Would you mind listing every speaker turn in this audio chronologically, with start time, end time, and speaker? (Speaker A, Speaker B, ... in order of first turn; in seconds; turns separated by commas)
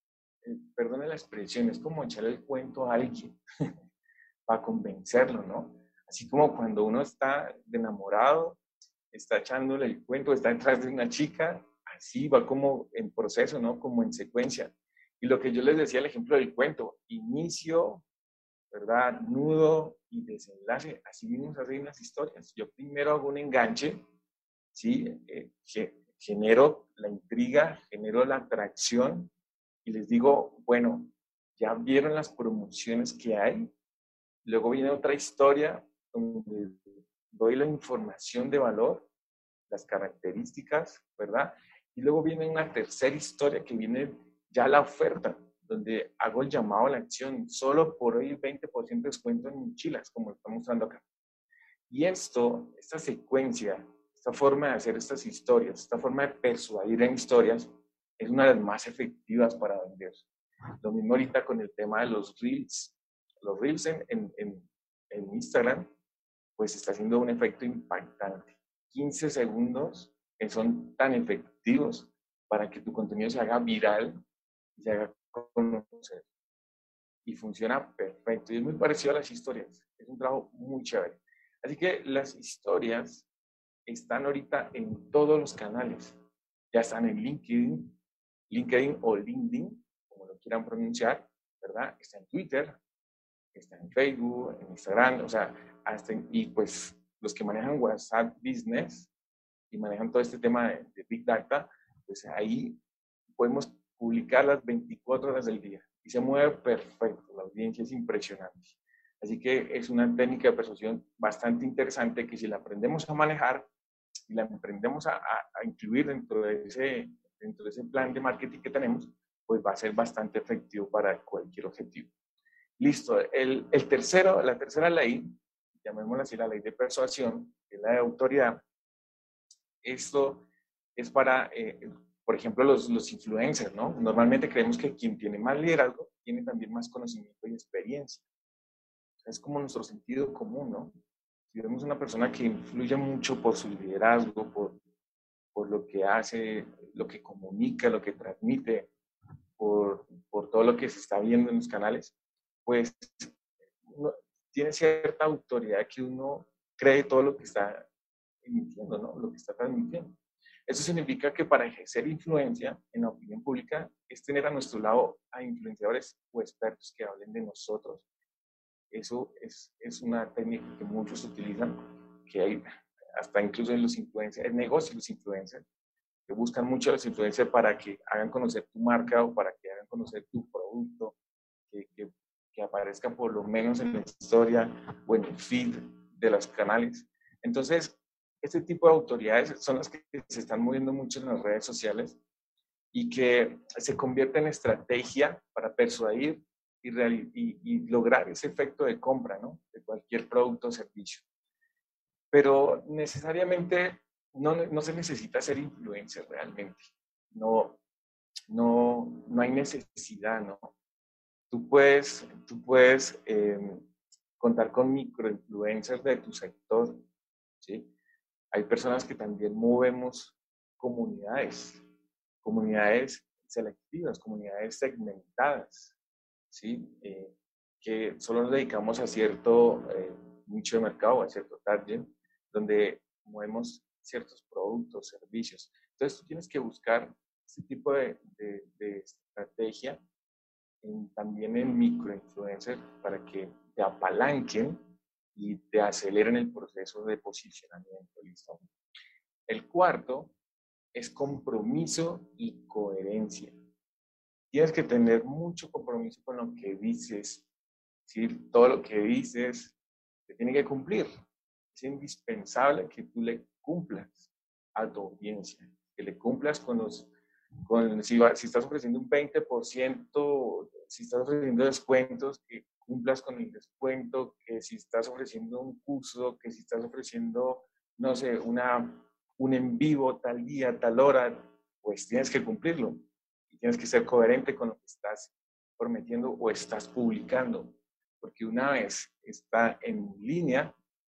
Speaker A: 0.4-3.4, Speaker A: 4.5-8.6, Speaker A: 9.1-18.0, Speaker A: 18.7-24.0, Speaker A: 24.7-29.3, Speaker A: 29.8-33.7, Speaker A: 34.4-39.1, Speaker A: 39.7-51.0, Speaker A: 51.9-60.3, Speaker A: 60.8-65.9, Speaker A: 66.6-74.2, Speaker A: 74.8-76.2, Speaker A: 77.2-83.3, Speaker A: 83.9-86.2, Speaker A: 86.7-87.9, Speaker A: 88.5-92.8, Speaker A: 93.5-99.1, Speaker A: 99.7-102.8, Speaker A: 103.3-113.7, Speaker A: 114.3-122.1, Speaker A: 122.8-128.6, Speaker A: 129.8-130.4, Speaker A: 131.0-138.2, Speaker A: 139.2-141.0, Speaker A: 141.5-144.8, Speaker A: 145.5-148.9, Speaker A: 149.6-152.1, Speaker A: 152.6-157.9, Speaker A: 158.4-168.0, Speaker A: 168.9-175.6, Speaker A: 176.3-181.2, Speaker A: 181.7-192.2, Speaker A: 192.9-201.2, Speaker A: 202.3-207.8, Speaker A: 208.5-210.7, Speaker A: 211.5-213.8, Speaker A: 214.4-217.1, Speaker A: 217.6-217.9, Speaker A: 218.5-221.8, Speaker A: 222.4-225.9, Speaker A: 226.5-240.0, Speaker A: 240.8-244.8, Speaker A: 245.3-248.6, Speaker A: 249.5-250.3, Speaker A: 250.9-253.5, Speaker A: 254.5-257.4, Speaker A: 258.1-261.1, Speaker A: 261.7-267.1, Speaker A: 267.6-290.7